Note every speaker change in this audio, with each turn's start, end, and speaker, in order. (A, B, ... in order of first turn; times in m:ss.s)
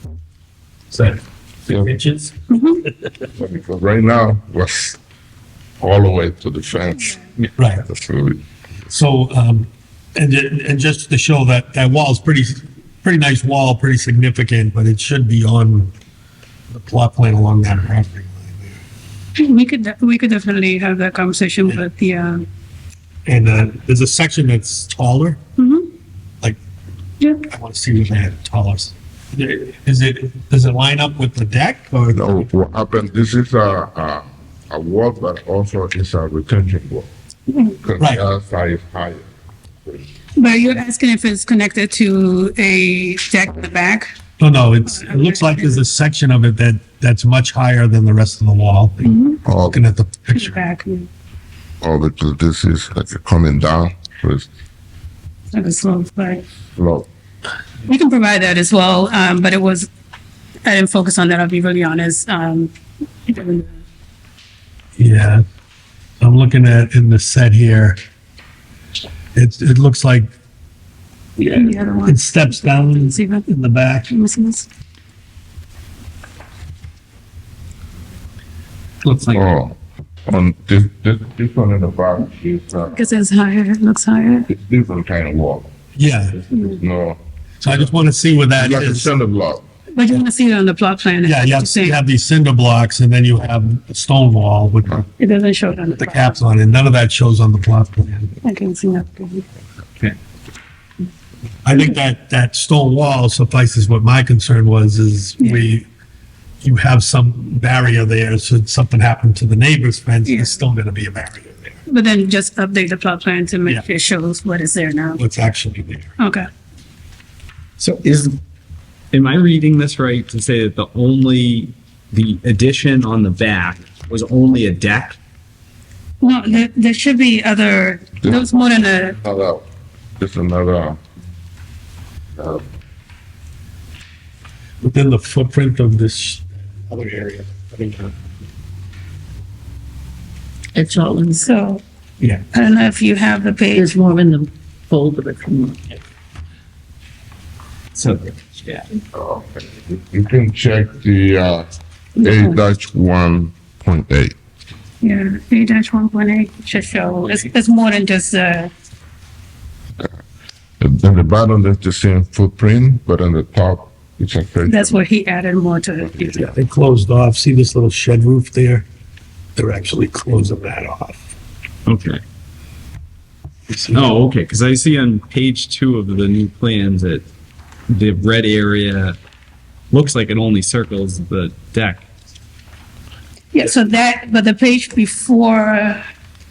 0:00.9-0:02.3 A
0:02.5-0:02.8 B
0:03.4-0:05.0 C
0:05.8-0:07.2 C
0:07.6-0:07.8 A
0:07.8-0:08.4 C
0:08.9-0:15.9 A
0:16.7-0:18.8 A
0:19.4-0:22.4 B
0:23.2-0:25.4 A
0:25.6-0:25.9 B
0:27.5-0:32.2 A
0:32.1-0:37.1 C
0:37.5-0:37.8 B
0:37.8-0:39.3 C
0:40.4-0:44.1 B
0:44.4-0:50.6 A
0:45.0-0:45.8 B
0:49.0-0:49.4 B
0:49.4-0:49.8 C
0:50.3-0:51.1 B
0:51.8-0:54.5 C
0:55.5-0:56.4 B
0:56.8-0:57.1 C
0:57.9-0:59.9 B
1:00.6-1:02.7 B
1:03.3-1:03.8 B
1:05.0-1:05.4 A
1:06.2-1:08.0 A
1:09.3-1:10.3 A
1:11.4-1:13.5 B
1:12.0-1:14.1 A
1:14.1-1:14.7 B
1:19.0-1:19.5 D
1:19.3-1:23.1 C
1:22.9-1:24.5 B
1:24.5-1:25.7 C
1:26.0-1:26.4 A
1:26.5-1:26.8 B
1:26.7-1:27.9 C
1:27.6-1:29.1 A
1:28.6-1:29.6 C
1:29.9-1:32.0 B
1:31.2-1:35.1 A
1:35.2-1:36.4 B
1:36.0-1:38.4 A
1:38.4-1:39.5 B
1:41.6-1:45.9 A
1:46.6-1:51.8 A
1:50.2-1:50.6 B
1:51.9-1:55.2 B
1:55.2-1:56.1 A
1:56.2-1:56.5 B
1:57.8-1:58.4 D
1:59.1-2:05.2 D
2:06.2-2:09.2 B
2:08.2-2:08.7 C
2:09.2-2:09.6 C
2:10.2-2:11.0 C
2:12.4-2:12.6 C
2:14.8-2:18.2 A
2:20.8-2:21.4 E
2:21.4-2:21.8 B
2:22.5-2:23.9 B
2:23.8-2:25.8 E
2:27.9-2:28.8 D
2:29.1-2:31.7 C
2:32.2-2:32.6 B
2:32.2-2:34.3 C
2:35.0-2:38.7 B
2:40.8-2:45.0 C
2:44.7-2:46.5 B
2:46.4-2:48.8 A
2:49.6-2:51.3 A
2:51.8-2:52.2 D
2:53.7-2:54.1 A
2:53.9-2:57.3 D
2:57.9-2:59.2 D
2:59.9-3:02.0 D
3:03.5-3:06.0 B